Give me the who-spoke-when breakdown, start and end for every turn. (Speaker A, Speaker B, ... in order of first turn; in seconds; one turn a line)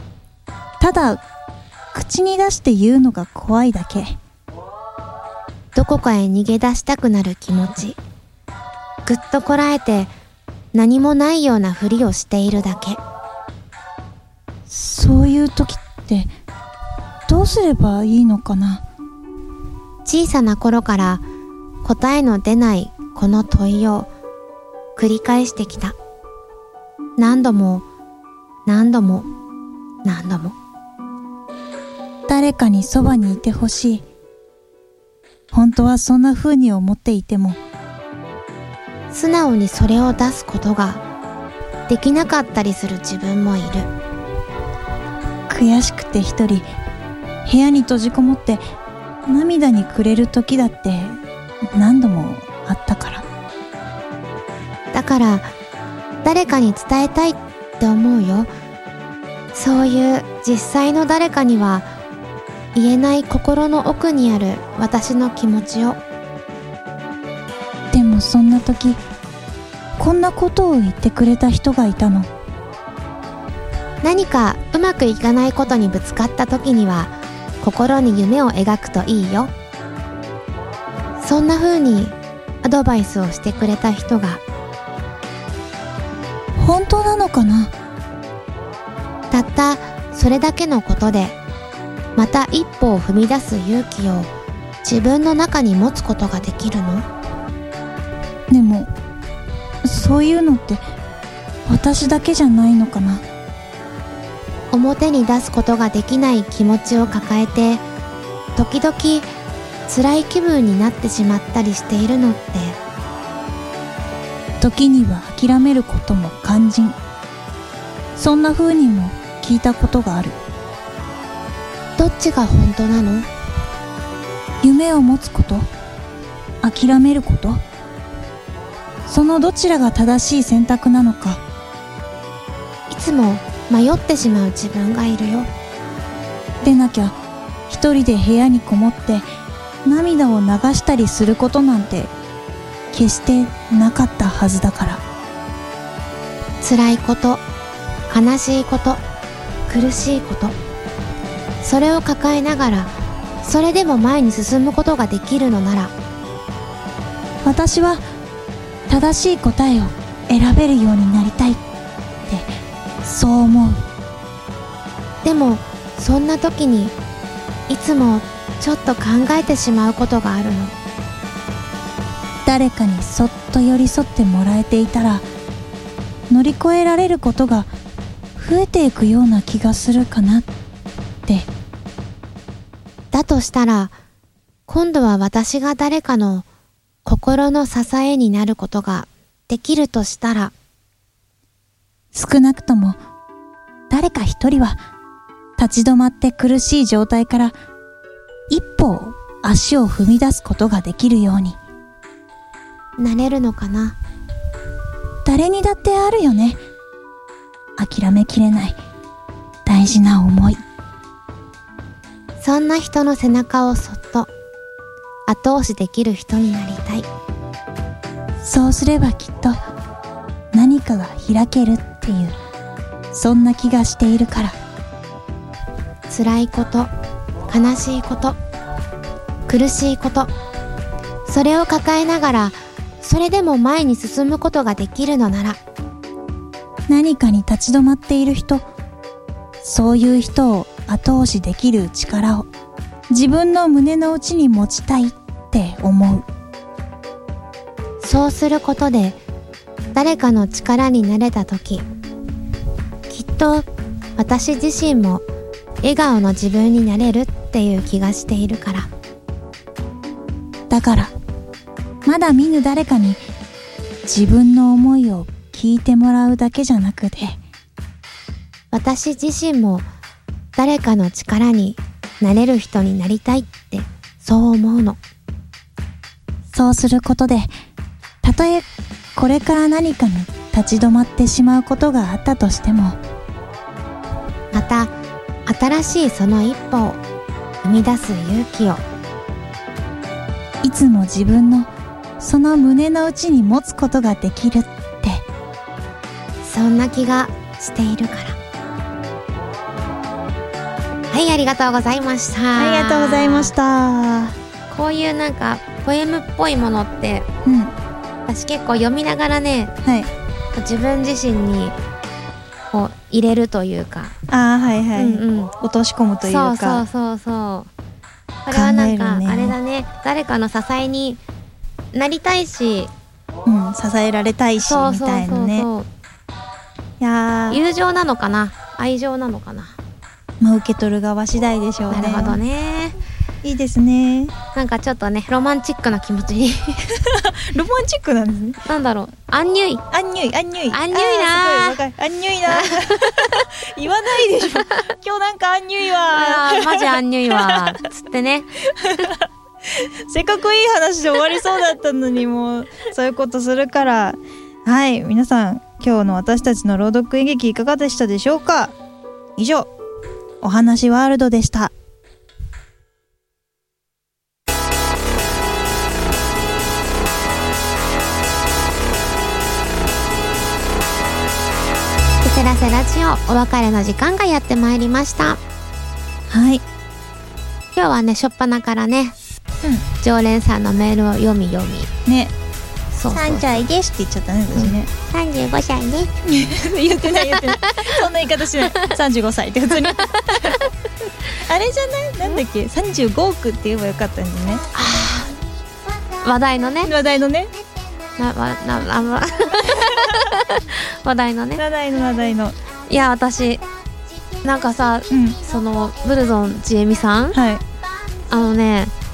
Speaker A: 0.8-1.2
Speaker A: 1.9-4.2
Speaker B: 5.7-8.0
Speaker B: 9.1-10.1
Speaker B: 10.7-13.0
Speaker A: 14.7-16.3
Speaker A: 17.3-18.8
Speaker B: 20.0-21.2
Speaker B: 21.8-24.1
Speaker B: 24.9-25.9
Speaker B: 27.2-27.8
Speaker B: 28.6-29.3
Speaker B: 30.0-30.6
Speaker A: 32.3-34.0
Speaker A: 35.5-37.6
Speaker B: 39.1-41.0
Speaker B: 41.9-43.9
Speaker A: 45.5-46.7
Speaker A: 47.4-48.6
Speaker A: 49.2-51.2
Speaker A: 51.8-53.2
Speaker B: 54.9-55.5
Speaker B: 56.2-58.5
Speaker B: 59.5-61.9
Speaker B: 62.7-66.0
Speaker A: 67.9-69.0
Speaker A: 70.0-72.3
Speaker B: 74.0-79.5
Speaker B: 81.2-84.4
Speaker A: 86.6-87.7
Speaker B: 89.3-91.4
Speaker B: 92.2-94.3
Speaker B: 94.8-97.0
Speaker A: 98.5-98.9
Speaker A: 99.8-100.8
Speaker A: 101.7-103.2
Speaker B: 104.7-107.8
Speaker B: 108.5-109.3
Speaker B: 109.9-112.8
Speaker A: 114.6-117.0
Speaker A: 118.2-120.3
Speaker B: 122.0-123.3
Speaker A: 124.6-125.7
Speaker A: 126.6-127.6
Speaker A: 129.1-131.4
Speaker B: 132.9-135.5
Speaker A: 136.6-137.2
Speaker A: 137.7-139.2
Speaker A: 139.8-142.1
Speaker A: 142.9-145.0
Speaker B: 146.6-147.4
Speaker B: 148.1-149.0
Speaker B: 149.7-150.5
Speaker B: 151.6-152.9
Speaker B: 153.4-155.9
Speaker A: 157.4-158.0
Speaker A: 158.9-161.6
Speaker A: 163.0-163.8
Speaker B: 165.2-166.9
Speaker B: 167.7-170.7
Speaker A: 172.4-175.2
Speaker A: 176.3-177.7
Speaker A: 178.4-180.5
Speaker B: 183.1-183.9
Speaker B: 184.7-186.4
Speaker B: 187.0-190.5
Speaker A: 192.1-193.0
Speaker A: 193.9-194.8
Speaker A: 195.6-197.6
Speaker A: 198.5-201.6
Speaker B: 203.0-203.9
Speaker A: 205.2-206.6
Speaker A: 207.8-208.8
Speaker A: 209.7-210.6
Speaker B: 212.4-214.3
Speaker B: 215.3-217.1
Speaker A: 218.4-219.6
Speaker A: 220.5-222.3
Speaker A: 223.1-224.6
Speaker B: 226.1-226.9
Speaker B: 227.5-228.4
Speaker B: 229.5-230.3
Speaker B: 231.2-235.6
Speaker A: 236.9-238.6
Speaker A: 239.6-242.5
Speaker A: 243.1-246.2
Speaker B: 248.0-249.2
Speaker B: 249.9-251.8
Speaker B: 253.1-255.2
Speaker B: 255.8-258.9
Speaker A: 260.7-261.1
Speaker A: 262.0-263.2
Speaker A: 264.1-267.4
Speaker B: 268.7-269.9
Speaker B: 270.6-275.0
Speaker A: 276.5-277.5
Speaker A: 278.2-283.0
Speaker B: 284.5-284.9
Speaker B: 285.4-287.0
Speaker B: 287.6-288.8
Speaker A: 290.6-295.2
Speaker B: 296.4-298.4
Speaker B: 301.1-303.5
Speaker A: 302.6-304.3
Speaker B: 304.7-307.3
Speaker A: 307.4-307.7
Speaker B: 308.3-309.7
Speaker A: 309.8-310.1
Speaker B: 310.5-311.8
Speaker B: 312.7-314.1
Speaker A: 314.3-316.8
Speaker B: 314.9-315.5
Speaker B: 316.2-317.7
Speaker B: 318.4-321.2
Speaker A: 318.5-319.6
Speaker B: 321.9-322.9
Speaker A: 323.4-325.7
Speaker B: 324.6-325.9
Speaker A: 327.0-327.6
Speaker B: 327.5-329.7
Speaker A: 330.4-332.4
Speaker B: 331.9-333.0
Speaker A: 333.4-334.3
Speaker B: 334.5-336.9
Speaker A: 337.0-338.6
Speaker B: 338.6-339.8
Speaker A: 339.9-347.8
Speaker B: 340.7-341.8
Speaker B: 342.5-343.2
Speaker B: 346.1-349.1
Speaker A: 348.8-358.7
Speaker A: 359.4-359.7
Speaker A: 360.4-361.7
Speaker B: 372.2-375.4
Speaker A: 376.3-376.6
Speaker B: 377.7-379.1
Speaker B: 380.0-381.9
Speaker A: 382.1-382.3
Speaker B: 382.9-383.7
Speaker A: 383.1-384.9
Speaker B: 384.5-386.2
Speaker A: 386.2-390.6
Speaker B: 387.1-388.9
Speaker B: 390.3-390.6
Speaker A: 391.4-394.6
Speaker B: 394.7-395.3
Speaker B: 396.2-396.9
Speaker A: 396.8-397.5
Speaker B: 398.2-401.6
Speaker A: 399.7-400.1
Speaker A: 401.6-402.6
Speaker B: 402.9-403.6
Speaker B: 404.4-407.4
Speaker A: 405.1-405.4
Speaker A: 407.3-407.6
Speaker B: 408.3-408.9